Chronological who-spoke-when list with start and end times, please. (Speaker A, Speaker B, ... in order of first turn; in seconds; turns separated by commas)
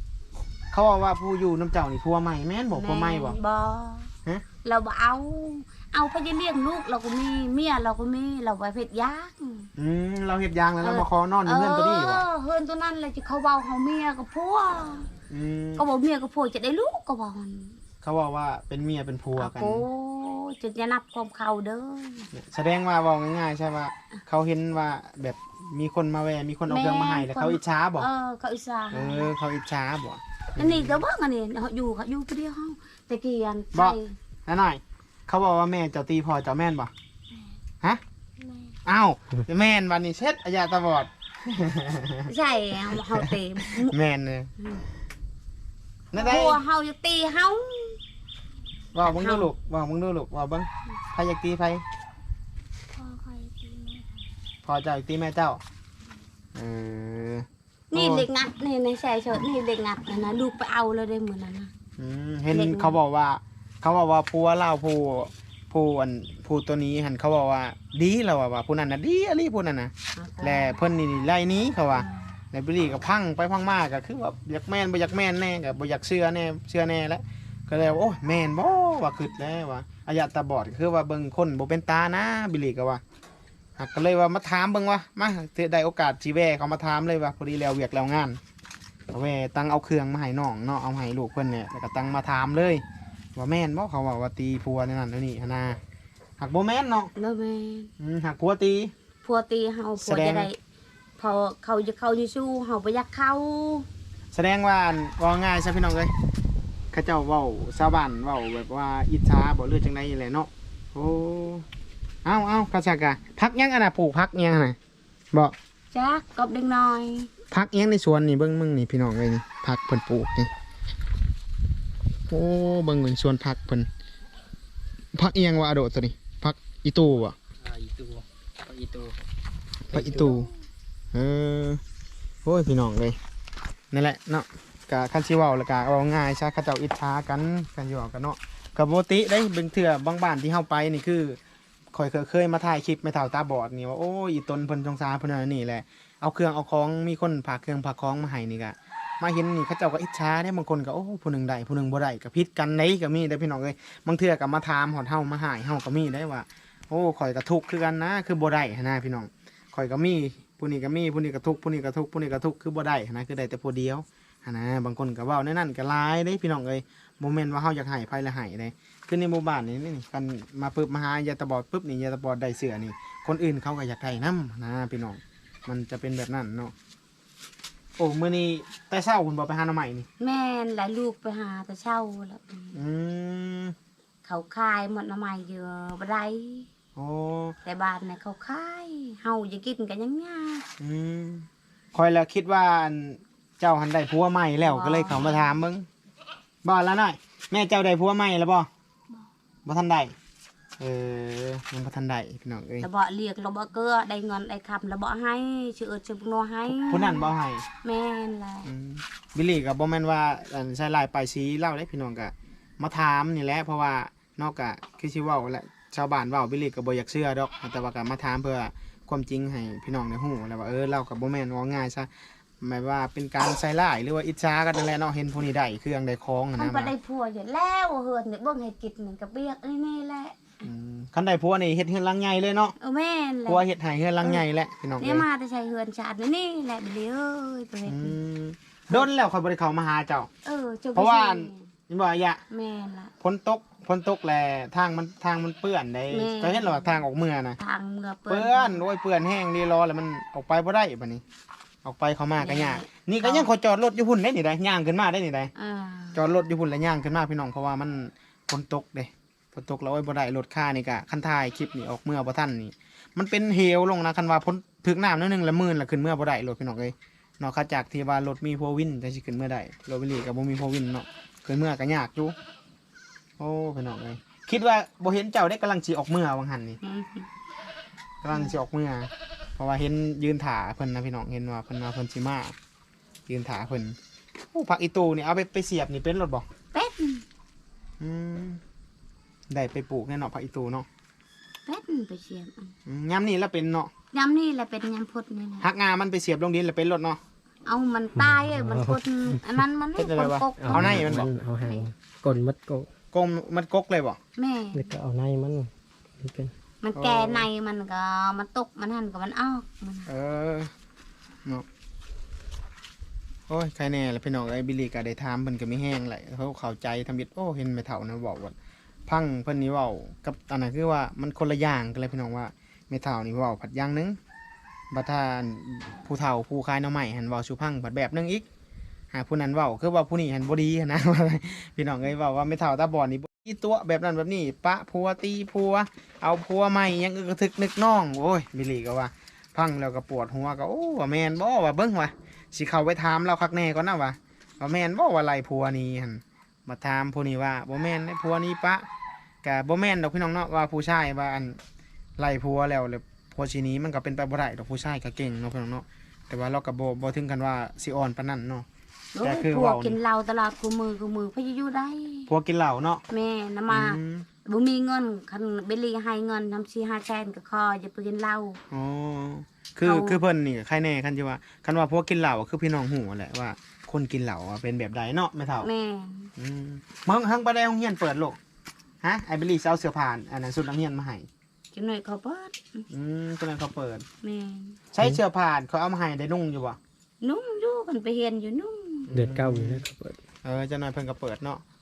Speaker A: 0.7-3.4, Speaker B: 2.7-4.1, Speaker B: 4.6-9.7, Speaker A: 9.8-12.2, Speaker B: 10.8-15.1, Speaker A: 15.3-15.9, Speaker B: 15.8-17.8, Speaker A: 18.0-19.9, Speaker B: 19.4-22.3, Speaker A: 22.3-28.1, Speaker B: 26.7-29.3, Speaker A: 28.9-31.0, Speaker B: 30.6-34.2, Speaker A: 33.7-36.9, Speaker B: 38.4-38.8, Speaker A: 38.8-44.5, Speaker B: 42.3-44.0, Speaker B: 44.6-44.8, Speaker A: 46.1-46.6, Speaker B: 46.1-48.0, Speaker A: 48.9-51.8, Speaker B: 49.0-49.5, Speaker B: 52.9-54.1, Speaker A: 54.6-55.6, Speaker A: 56.5-58.3, Speaker B: 57.9-61.7, Speaker A: 62.0-83.0, Speaker B: 62.5-63.0, Speaker B: 70.2-70.8, Speaker B: 71.9-72.3, Speaker A: 83.8-88.4, Speaker A: 89.1-92.8, Speaker A: 93.3-95.8, Speaker A: 96.4-97.1, Speaker B: 97.1-97.9, Speaker A: 98.0-98.9, Speaker B: 99.2-100.6, Speaker A: 100.0-100.5, Speaker B: 101.2-103.9, Speaker A: 104.3-106.1, Speaker A: 106.9-111.7, Speaker A: 112.2-114.8, Speaker B: 115.9-117.3, Speaker A: 117.5-120.5, Speaker A: 122.3-123.9, Speaker A: 125.1-127.4, Speaker C: 127.6-129.2, Speaker A: 129.9-130.5, Speaker C: 129.9-130.4, Speaker A: 131.1-131.8, Speaker A: 132.4-133.2, Speaker A: 133.9-141.4, Speaker A: 141.9-176.7, Speaker A: 178.0-180.1, Speaker B: 180.2-182.8, Speaker A: 182.7-183.7, Speaker B: 184.2-186.7, Speaker A: 186.9-187.6, Speaker B: 187.6-190.7, Speaker A: 190.8-195.9, Speaker B: 194.6-195.6, Speaker A: 196.6-198.7, Speaker A: 199.6-200.1, Speaker A: 200.8-202.9, Speaker B: 202.8-207.3, Speaker A: 206.7-207.6, Speaker B: 207.8-208.7, Speaker A: 208.6-222.1, Speaker A: 222.6-226.9, Speaker B: 226.6-230.6, Speaker A: 230.6-232.8, Speaker B: 232.8-233.7, Speaker A: 233.4-235.2, Speaker B: 235.0-238.1, Speaker A: 237.9-240.3, Speaker B: 240.4-241.7, Speaker A: 240.9-242.4, Speaker B: 242.5-243.1, Speaker A: 243.2-247.6, Speaker B: 246.1-247.1, Speaker B: 247.6-248.8, Speaker A: 248.3-251.2, Speaker A: 251.8-255.5, Speaker B: 252.4-253.5, Speaker B: 255.6-256.2, Speaker A: 256.1-272.3, Speaker A: 273.4-276.8, Speaker B: 276.8-277.3, Speaker A: 278.2-282.5, Speaker A: 283.3-284.0, Speaker A: 284.5-286.4, Speaker B: 286.7-287.2, Speaker A: 288.0-288.6, Speaker A: 289.5-290.9, Speaker B: 291.6-292.7, Speaker A: 292.9-293.9, Speaker B: 294.1-295.6, Speaker A: 295.6-297.2, Speaker B: 297.6-301.8, Speaker C: 298.2-299.4, Speaker A: 300.0-301.3, Speaker C: 300.6-302.9, Speaker A: 303.1-304.2, Speaker B: 304.4-304.9, Speaker C: 304.7-306.5, Speaker B: 306.8-310.1, Speaker A: 306.9-307.5, Speaker A: 310.1-310.7, Speaker A: 313.5-318.5, Speaker A: 319.1-324.2, Speaker A: 324.9-328.5, Speaker A: 329.1-348.8, Speaker A: 349.4-351.6, Speaker A: 352.2-358.6, Speaker B: 359.1-362.3, Speaker A: 359.2-360.0, Speaker A: 362.3-363.0, Speaker B: 363.1-368.6, Speaker A: 363.7-364.3, Speaker A: 368.7-375.7, Speaker B: 369.8-370.2, Speaker B: 375.6-376.3, Speaker A: 376.4-378.4, Speaker A: 379.0-381.3, Speaker B: 381.7-382.9, Speaker A: 382.9-384.0, Speaker B: 384.2-384.8, Speaker A: 384.9-386.8, Speaker B: 387.2-389.1, Speaker A: 389.1-389.9, Speaker C: 389.1-390.2, Speaker A: 390.4-391.6